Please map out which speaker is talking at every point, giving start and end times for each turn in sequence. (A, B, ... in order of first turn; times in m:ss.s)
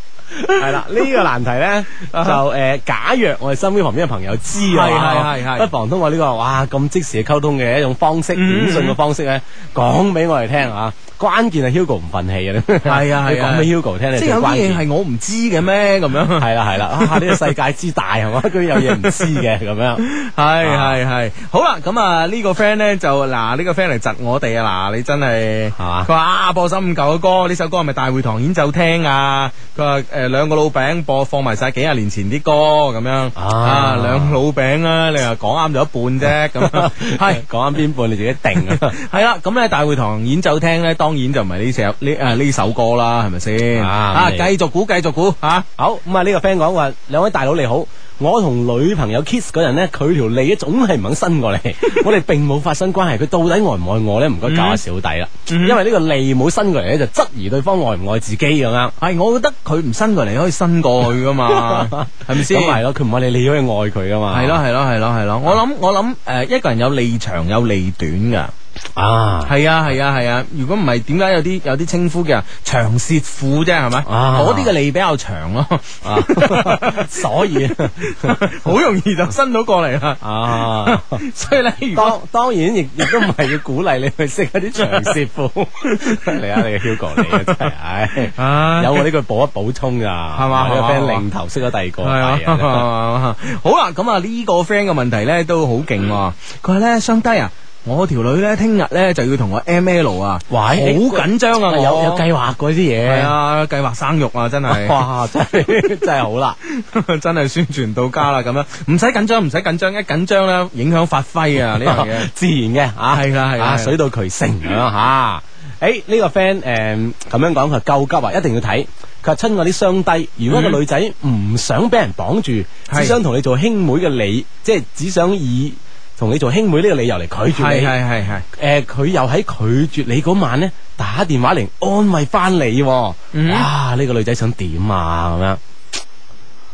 0:00.5-0:14.8 A
0:00.6-0:01.2 B
0:02.1-0:02.4 B
0:04.7-0:05.7 B
0:08.3-0:09.0 B
0:12.8-0:17.4 B
0:16.4-0:20.0 A
0:18.8-0:19.2 B
0:20.0-0:37.4 B
0:20.6-0:21.0 A
0:25.8-0:26.1 A
0:33.4-0:34.4 A
0:36.6-0:38.9 A
0:38.7-0:45.7 B
0:43.8-0:44.5 A
0:45.8-0:58.9 A
0:54.5-0:54.8 B
0:55.5-0:55.8 B
0:59.0-1:02.8 B
1:01.5-1:04.6 A
1:04.3-1:08.5 B
1:09.0-1:09.5 A
1:09.4-1:17.1 B
1:14.0-1:14.7 A
1:16.0-1:18.3 A
1:18.0-1:22.1 B
1:20.2-1:21.1 A
1:21.9-1:32.8 A
1:27.2-1:27.6 B
1:28.4-1:29.1 B
1:30.3-1:31.2 B
1:32.0-1:42.2 B
1:40.5-1:43.3 A
1:43.1-1:45.0 B
1:44.7-1:46.6 A
1:46.7-1:52.3 B
1:51.7-2:08.0 A
1:53.1-1:54.0 B
2:00.5-2:00.8 B
2:02.9-2:03.2 B
2:07.5-2:08.4 B
2:08.6-2:15.6 A
2:13.3-2:13.7 B